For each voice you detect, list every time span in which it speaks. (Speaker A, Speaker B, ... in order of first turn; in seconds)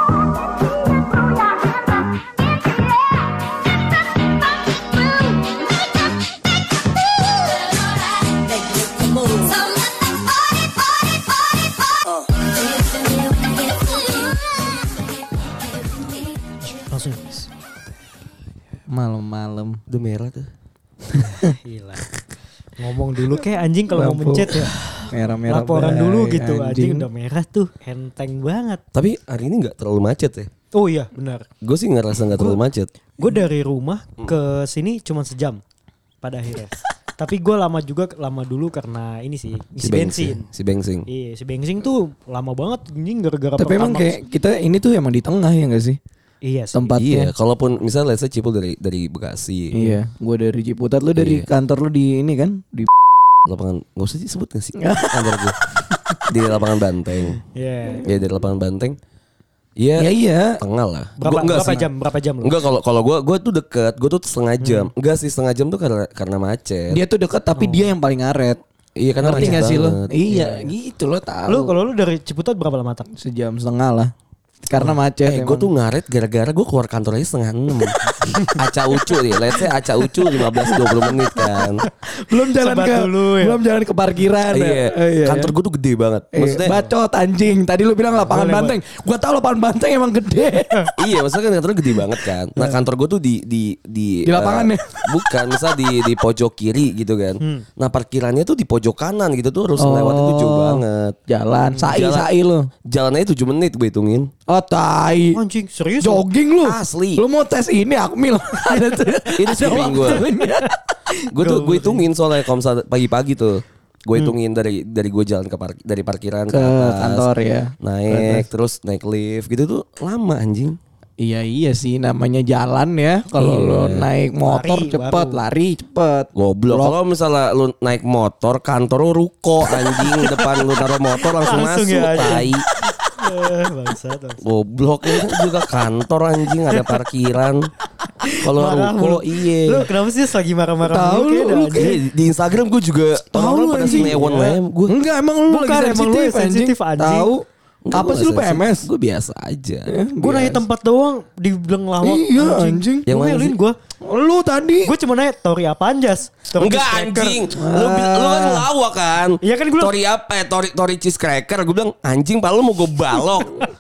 Speaker A: 0.5-11.2, 12.1-14.7
Speaker B: 16.9-17.4, 21.4-22.1, 22.8-24.8, 25.5-28.8, 30.7-31.4, 33.2-35.6, 36.2-40.5, 41.1-44.2, 46.4-46.9, 57.4-58.0, 61.2-62.6, 64.6-64.9, 67.6-67.9, 71.5-73.1, 81.6-81.9, 82.4-83.6, 86.6-86.9, 88.2-88.8, 105.3-106.2, 109.7-110.7, 111.4-112.0, 124.5-125.4, 129.9-132.5, 133.1-134.4, 136.7-137.0, 138.2-142.0, 143.3-144.6, 145.5-147.3, 150.2-153.8, 154.8-157.4, 159.4-159.9
Speaker C: 18.9-19.8, 21.3-21.5, 23.9-27.1, 43.6-46.0, 46.7-47.3, 49.7-52.9, 54.8-55.4, 60.0-60.6, 66.9-68.6, 69.2-71.8, 73.1-74.1, 74.7-75.7, 82.2-85.5, 86.3-90.9, 94.2-95.1, 99.8-102.7, 104.5-105.4, 106.0-110.8, 116.5-118.5, 121.2-126.9, 140.9-141.9, 143.3-144.1, 144.9-148.9, 149.9-150.6, 152.0-153.1, 154.0-154.9, 157.6-158.7
Speaker D: 19.9-20.5, 28.9-30.5, 31.6-32.9, 39.8-41.1, 46.9-49.8, 51.2-51.5, 53.5-55.6, 56.3-57.4, 58.0-59.0, 59.8-61.9, 62.4-67.0, 69.0-70.7, 75.2-78.0, 78.6-81.8, 84.5-86.7, 91.0-101.2, 101.9-102.3, 102.8-104.3, 106.6-107.2, 109.4-110.3, 111.3-117.3, 117.8-120.8, 123.3-124.1, 126.3-132.7, 134.4-137.7, 138.4-139.9, 141.7-144.9, 147.8-149.9, 153.1-153.6, 156.6-163.6